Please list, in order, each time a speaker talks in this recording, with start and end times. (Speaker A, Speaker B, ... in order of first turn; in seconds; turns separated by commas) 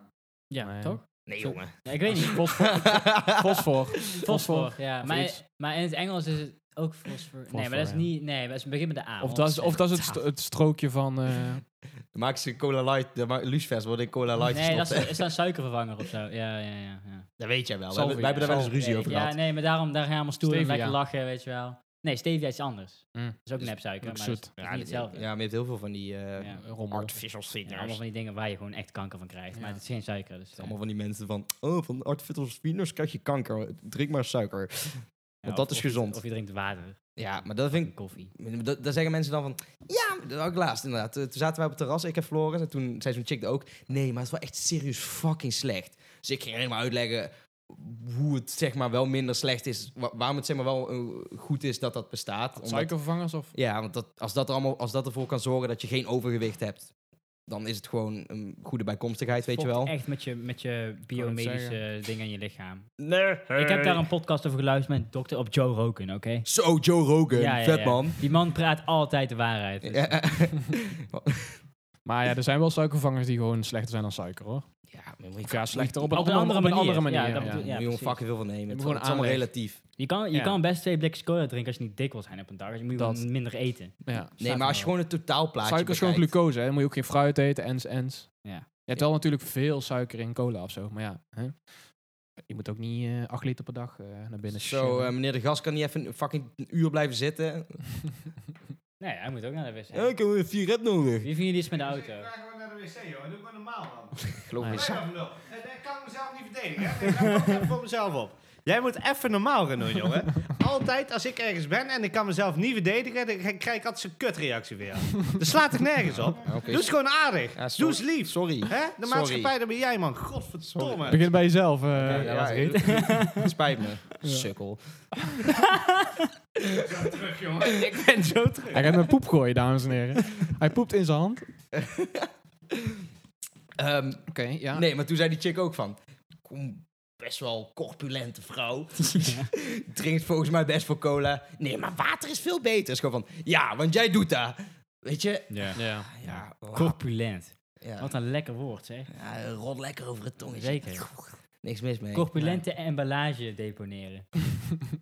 Speaker A: 0.5-2.5, Speaker B: 0.6-1.0, Speaker C: 1.3-3.6, Speaker B: 2.1-5.4, Speaker A: 4.2-10.2, Speaker B: 7.5-8.1, Speaker B: 9.2-11.6, Speaker C: 12.1-15.3, Speaker A: 14.5-17.3, Speaker C: 17.4-19.4, Speaker B: 17.9-18.8, Speaker A: 18.3-25.2, Speaker B: 20.4-21.0, Speaker B: 24.0-24.5, Speaker C: 24.6-28.0, Speaker A: 26.4-26.6, Speaker B: 26.6-27.2, Speaker A: 27.6-30.8, Speaker C: 30.6-36.2, Speaker A: 35.4-38.3, Speaker C: 37.2-52.9, Speaker B: 52.6-53.5, Speaker C: 53.5-56.9, Speaker C: 57.5-59.9, Speaker A: 59.5-62.9, Speaker B: 61.1-61.8, Speaker C: 63.0-64.0, Speaker A: 63.5-66.5, Speaker C: 66.5-68.2, Speaker A: 67.3-70.3, Speaker C: 69.8-71.6, Speaker B: 72.0-74.8, Speaker C: 74.9-76.3, Speaker B: 75.4-77.6, Speaker A: 76.1-78.2, Speaker C: 77.4-79.8, Speaker B: 78.7-79.6, Speaker A: 80.0-84.9, Speaker B: 80.3-80.6, Speaker B: 83.0-84.3, Speaker C: 84.4-86.3, Speaker B: 85.6-95.1, Speaker C: 94.5-97.8, Speaker A: 99.0-100.1, Speaker C: 99.9-101.3, Speaker A: 101.2-102.3, Speaker D: 101.7-121.3, Speaker C: 104.4-105.1, Speaker B: 104.6-104.9, Speaker C: 116.4-116.9, Speaker C: 117.5-119.5, Speaker C: 120.6-121.3, Speaker B: 121.1-122.3, Speaker C: 121.9-124.8, Speaker A: 122.0-123.5, Speaker B: 124.2-124.5, Speaker A: 125.5-126.3, Speaker C: 126.6-127.9, Speaker D: 126.9-128.8, Speaker B: 128.7-131.5, Speaker C: 131.7-133.0, Speaker C: 133.8-147.0, Speaker B: 134.3-134.8, Speaker A: 139.1-139.5, Speaker A: 145.5-149.1, Speaker B: 145.8-146.1, Speaker C: 147.8-148.1, Speaker C: 149.1-152.3, Speaker A: 150.5-151.2, Speaker A: 152.1-154.3, Speaker B: 152.4-152.6